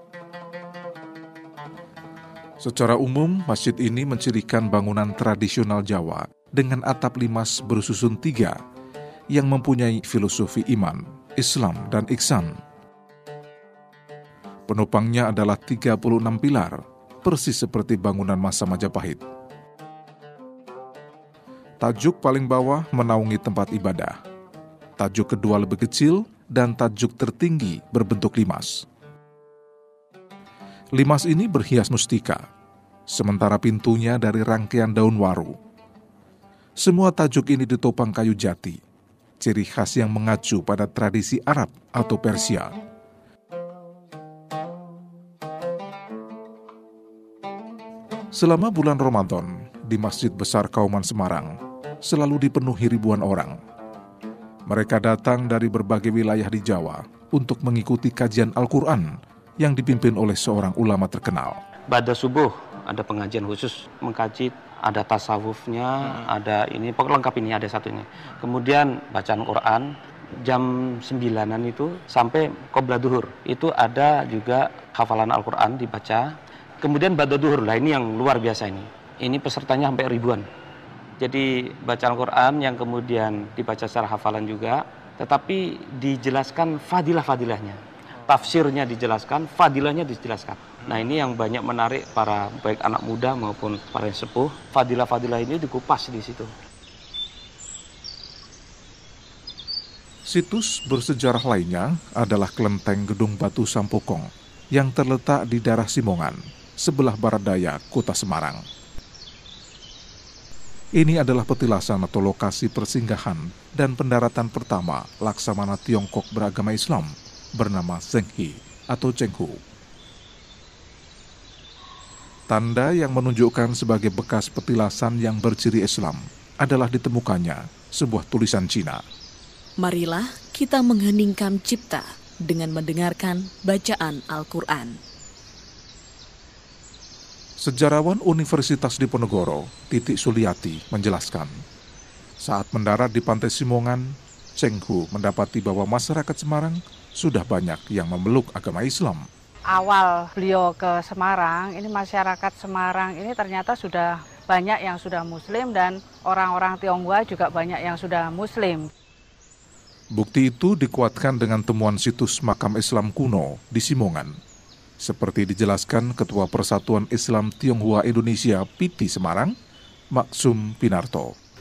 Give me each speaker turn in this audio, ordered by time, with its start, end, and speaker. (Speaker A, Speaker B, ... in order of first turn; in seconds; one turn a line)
Speaker A: 2.6-8.6
Speaker A: 9.3-12.6
Speaker A: 14.7-19.2
Speaker A: 21.8-24.2
Speaker A: 25.0-28.9
Speaker A: 31.0-32.5
Speaker A: 33.1-35.6
Speaker A: 36.8-38.8
Speaker A: 39.4-42.7
Speaker A: 48.3-53.6
Speaker A: 54.7-61.6
Speaker B: 61.9-80.5
Speaker B: 81.2-96.5
Speaker A: 100.3-108.7
Speaker A: 111.0-119.6
Speaker A: 122.5-129.0
Speaker C: 129.8-135.0
Speaker A: 137.6-141.6
Speaker A: 142.4-149.3
Speaker D: 149.7-158.9
Speaker A: 160.2-164.4
Speaker A: 165.0-169.5
Speaker A: 170.1-171.3